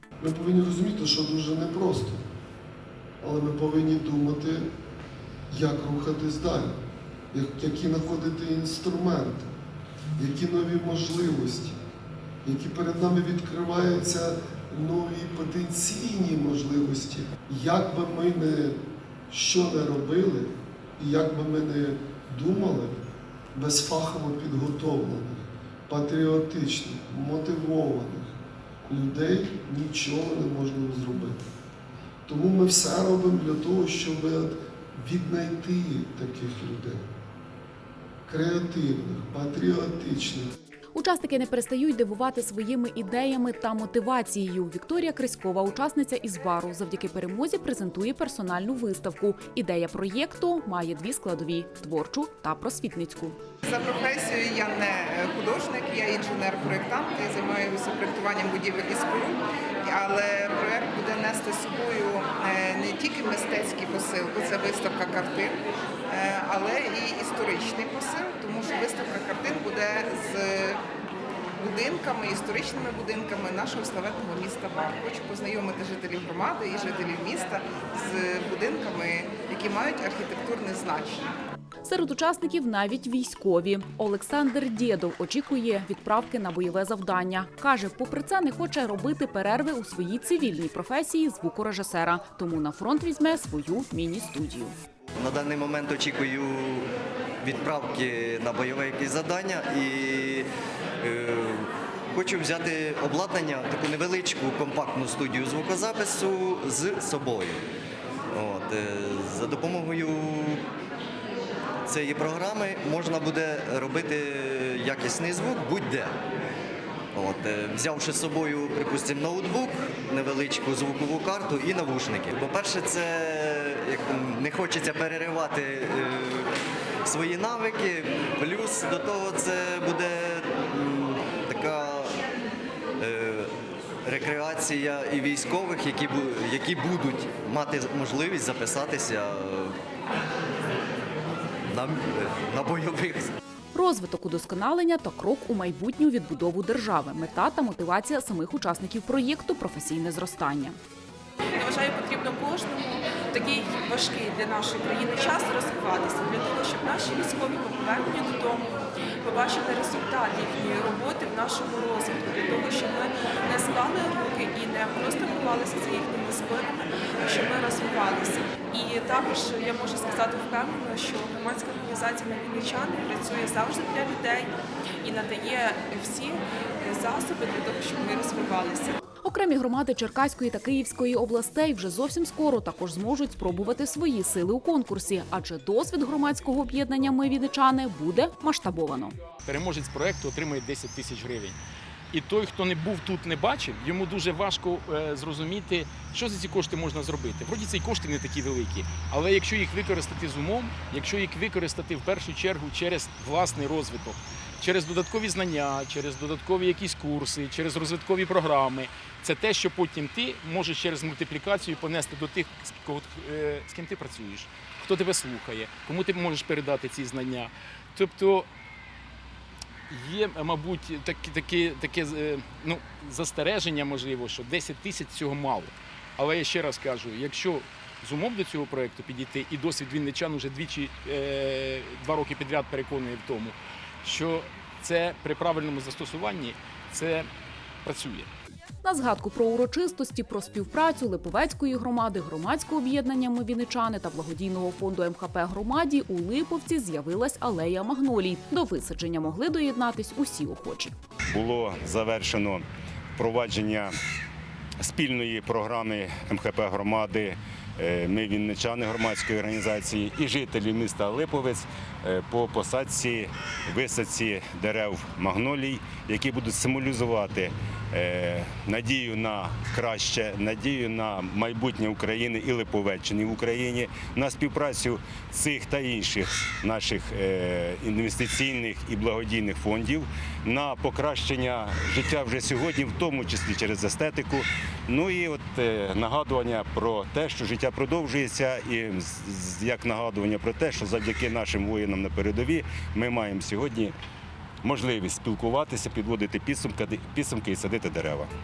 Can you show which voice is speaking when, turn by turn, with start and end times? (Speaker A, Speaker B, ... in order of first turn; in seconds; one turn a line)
Speaker A: 0.2-2.2
Speaker A: 3.2-4.7
Speaker A: 5.5-6.8
Speaker A: 7.3-9.5
Speaker A: 10.2-11.8
Speaker A: 12.4-23.0
Speaker A: 23.6-28.3
Speaker A: 28.9-31.4
Speaker A: 32.3-37.1
Speaker A: 38.3-40.5
Speaker B: 41.0-53.4
Speaker C: 53.6-65.6
Speaker C: 66.1-70.8
Speaker C: 71.6-81.3
Speaker B: 81.8-94.7
Speaker D: 95.2-96.8
Speaker D: 97.5-100.5
Speaker D: 101.0-107.6
Speaker D: 108.4-110.6
Speaker D: 111.9-116.2
Speaker D: 117.2-126.5
Speaker D: 127.0-132.1
Speaker D: 133.0-133.4
Speaker D: 134.1-139.7
Speaker D: 142.6-143.3
Speaker B: 143.7-150.8
Speaker E: 151.6-179.0
Speaker B: 179.2-189.2
Speaker F: 189.4-191.6
Speaker F: 192.1-218.5
Speaker F: 219.9-237.3
Speaker F: 237.8-238.3
Speaker B: 238.8-250.9
Speaker G: 251.3-252.6
Speaker G: 253.2-253.9
Speaker G: 254.8-293.9
Speaker G: 294.6-298.3